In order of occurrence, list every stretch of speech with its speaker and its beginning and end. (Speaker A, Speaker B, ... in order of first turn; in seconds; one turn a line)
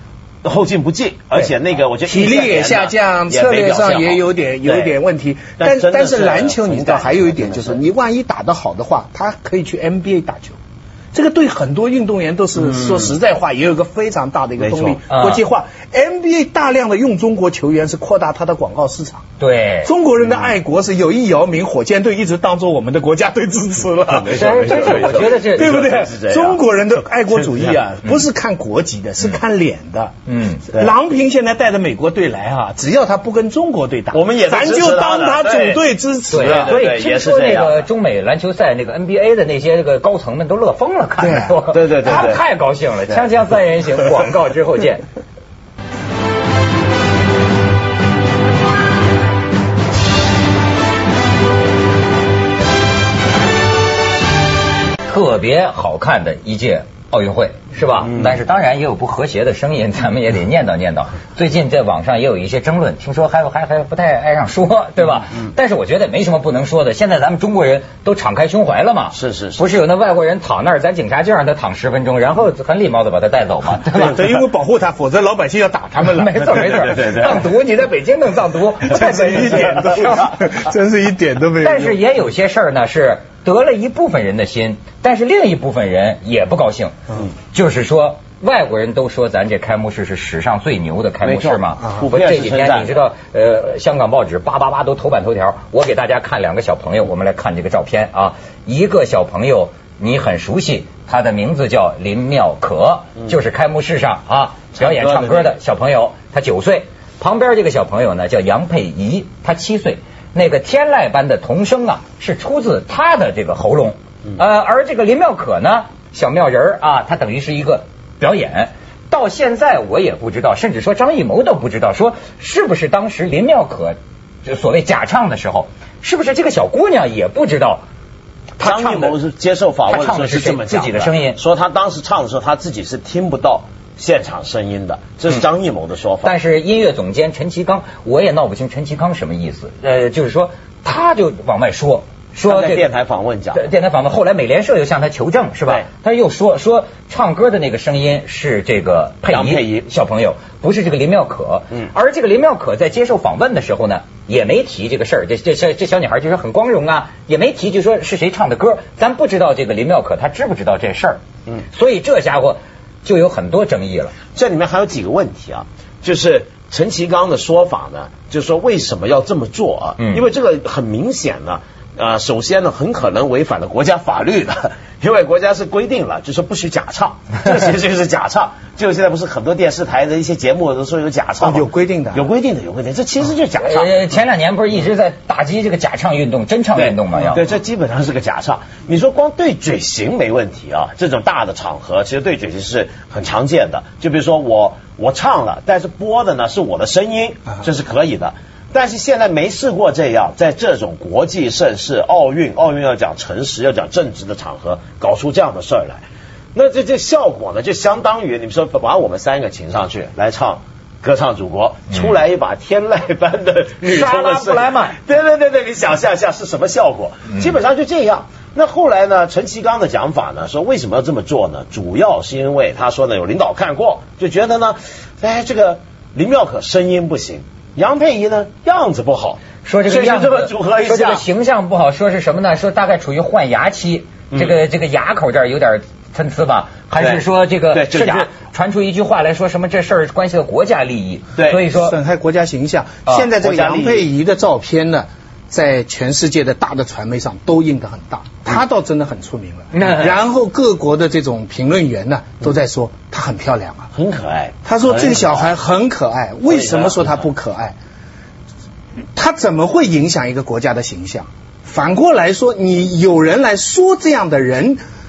Speaker A: 0.4-5.0
Speaker B: 2.0-10.6
Speaker A: 5.6-7.8
Speaker B: 11.1-19.2
Speaker A: 12.6-13.1
Speaker A: 14.6-15.0
Speaker C: 15.1-15.4
Speaker C: 19.4-19.9
Speaker B: 19.8-30.1
Speaker A: 20.2-20.5
Speaker A: 24.0-26.6
Speaker C: 24.3-25.9
Speaker A: 27.3-27.8
Speaker C: 30.3-30.6
Speaker B: 30.7-36.8
Speaker A: 34.1-37.9
Speaker C: 36.3-45.0
Speaker B: 41.2-41.6
Speaker A: 41.7-42.4
Speaker C: 55.1-74.4
Speaker A: 69.1-69.6
Speaker B: 74.0-76.7
Speaker C: 76.0-80.5
Speaker A: 76.4-77.4
Speaker B: 79.0-82.0
Speaker C: 81.6-87.0
Speaker C: 87.5-127.8
Speaker A: 91.2-93.0
Speaker A: 104.8-105.5
Speaker C: 128.6-129.2
Speaker A: 128.6-136.3
Speaker C: 129.9-131.4
Speaker C: 136.2-142.9
Speaker A: 142.4-143.6
Speaker C: 143.5-164.1
Speaker A: 149.3-149.9
Speaker A: 164.3-183.9
Speaker C: 170.0-170.2
Speaker B: 181.4-182.2
Speaker C: 183.6-187.4
Speaker A: 186.8-206.0
Speaker A: 206.6-231.2
Speaker C: 213.8-215.0
Speaker C: 229.6-242.0
Speaker A: 237.0-238.3
Speaker A: 241.4-241.6
Speaker B: 241.7-253.9
Speaker A: 243.4-244.1
Speaker C: 249.7-250.2
Speaker A: 253.9-255.6
Speaker B: 254.7-257.7
Speaker A: 256.4-257.3
Speaker B: 259.2-264.8